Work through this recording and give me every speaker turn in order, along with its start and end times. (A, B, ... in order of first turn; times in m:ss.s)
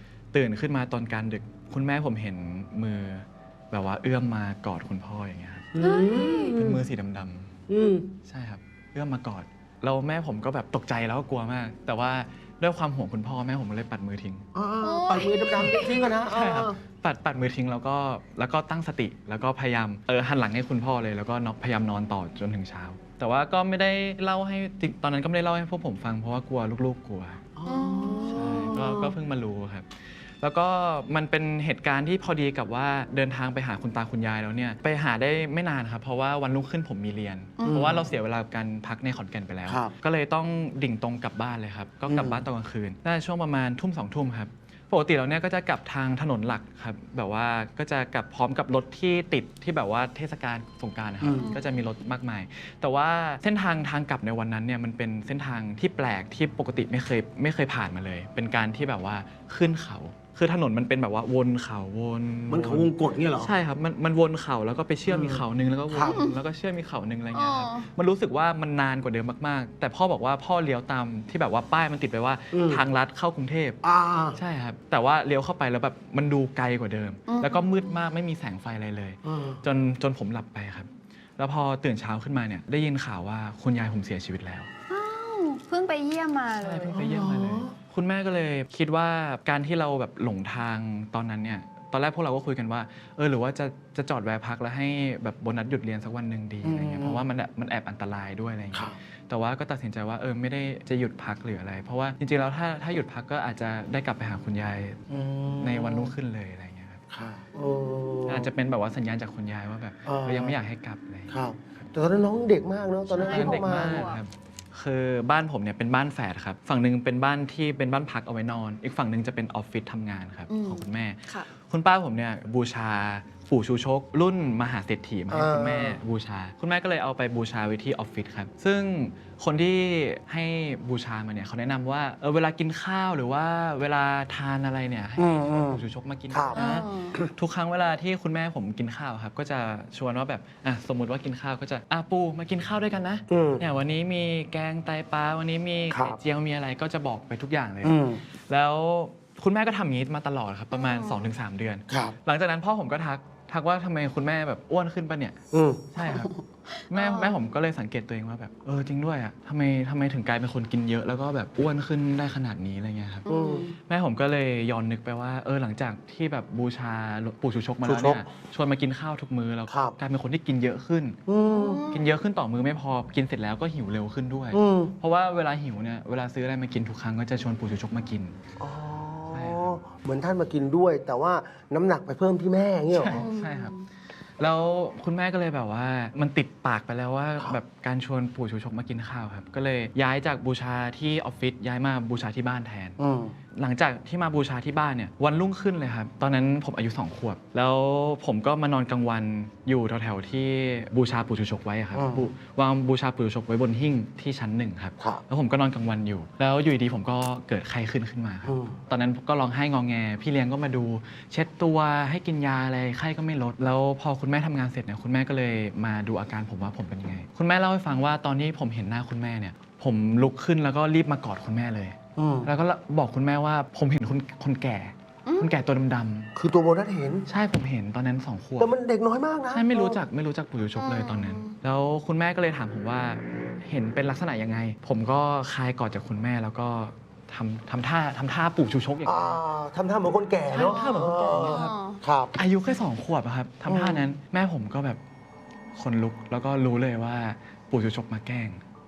0:00.3-0:05.7 A
0:05.8-0:06.8 B
0:05.8-0:06.6 C
0:06.5-0:07.6 A
0:07.7-0:08.1 B
0:08.3-0:14.4 A
0:14.6-0:16.8 B
0:14.8-0:16.1 C
0:15.6-0:27.4 A
0:27.6-0:28.9 B
0:27.7-0:29.2 C
0:28.3-0:29.9 A
0:30.4-1:13.8 A
0:37.6-0:37.9 C
0:37.7-0:38.1 B
0:39.7-0:39.9 B
0:42.1-0:42.4 B
0:51.2-0:51.6 B
0:51.4-0:51.7 C
1:02.5-1:03.5 B
1:05.1-1:06.2 B
1:06.0-1:06.4 C
1:07.3-1:07.9 C
1:12.5-1:12.8 B
1:13.8-1:14.4 B
1:14.4-1:24.7 A
1:17.3-1:17.9 C
1:19.2-1:19.6 B
1:24.9-1:27.0 C
1:26.6-1:45.0 A
1:26.9-1:27.7 B
1:36.6-1:37.3 B
1:45.1-1:46.1 B
1:45.6-1:47.0 A
1:47.1-1:48.5 B
1:48.3-1:51.9 A
1:50.1-1:50.6 B
1:51.3-1:54.0 B
1:53.1-1:54.2 C
1:53.2-2:35.4 A
2:00.5-2:01.5 C
2:05.3-2:06.0 B
2:15.2-2:17.3 B
2:16.5-2:17.2 C
2:23.3-2:23.6 B
2:25.9-2:26.2 B
2:27.8-2:28.2 B
2:30.7-2:31.3 C
2:31.9-2:32.2 B
2:35.5-2:35.9 B
2:35.9-2:36.3 A
2:36.8-2:37.4 C
2:36.9-2:43.3 A
2:43.3-2:43.8 C
2:43.3-2:43.7 B
2:43.9-2:51.2 A
2:47.8-2:48.2 B
2:49.7-2:50.0 B
2:51.3-2:51.8 B
2:51.5-2:52.1 C
2:51.9-2:58.4 A
2:54.5-2:54.9 B
2:58.6-3:03.2 B
2:59.3-2:59.8 A
3:02.9-3:03.7 A
3:03.1-3:03.9 C
3:04.4-3:13.0 A
3:13.0-3:13.4 B
3:13.6-3:46.3 A
3:21.9-3:22.3 B
3:25.0-3:25.2 B
3:28.5-3:28.8 B
3:42.2-3:42.5 B
3:45.3-3:45.6 C
3:46.4-3:47.3 B
3:47.3-3:48.7 A
3:48.6-3:50.0 B
3:49.5-3:59.4 A
3:50.8-3:51.6 C
3:59.0-4:02.3 B
4:00.5-4:01.8 A
4:00.5-4:02.0 C
4:02.4-4:05.0 A
4:03.7-4:04.1 B
4:05.8-4:08.6 A